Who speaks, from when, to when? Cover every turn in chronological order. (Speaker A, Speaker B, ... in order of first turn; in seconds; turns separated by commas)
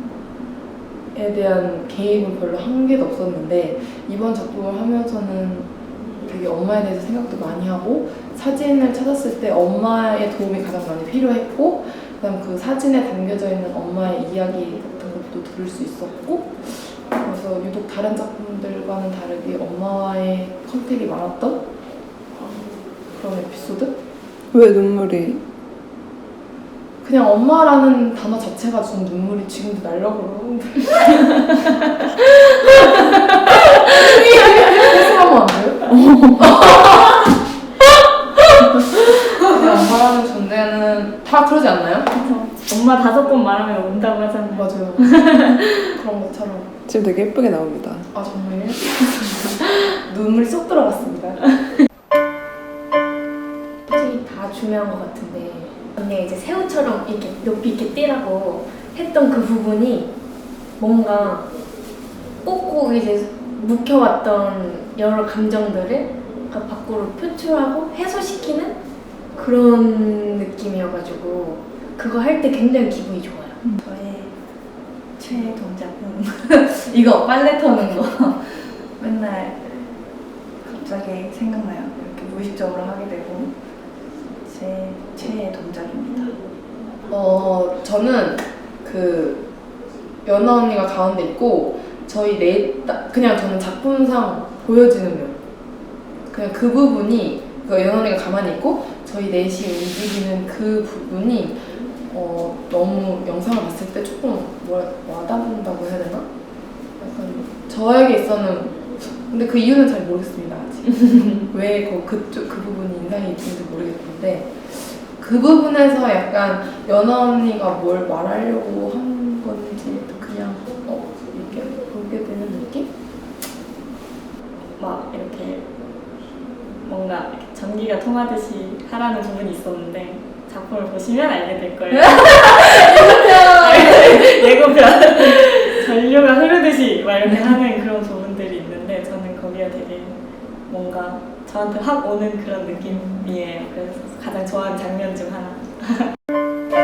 Speaker A: 1.1-5.7, Speaker A: 6.2-21.6, Speaker A: 23.1-23.9, Speaker B: 24.5-25.4, Speaker A: 27.0-37.3, Speaker A: 38.5-42.1, Speaker C: 42.1-45.9, Speaker A: 44.5-46.7, Speaker B: 46.9-48.1, Speaker A: 48.1-51.5, Speaker D: 53.9-60.1, Speaker D: 60.8-61.5, Speaker D: 62.4-68.8, Speaker D: 69.3-73.6, Speaker E: 73.8-74.3, Speaker E: 75.2-79.6, Speaker E: 80.6-83.5, Speaker E: 84.4-86.4, Speaker A: 87.1-89.4, Speaker A: 90.2-95.4, Speaker A: 96.3-106.2, Speaker A: 107.0-122.9, Speaker C: 124.8-125.6, Speaker C: 126.8-140.2, Speaker C: 140.7-146.1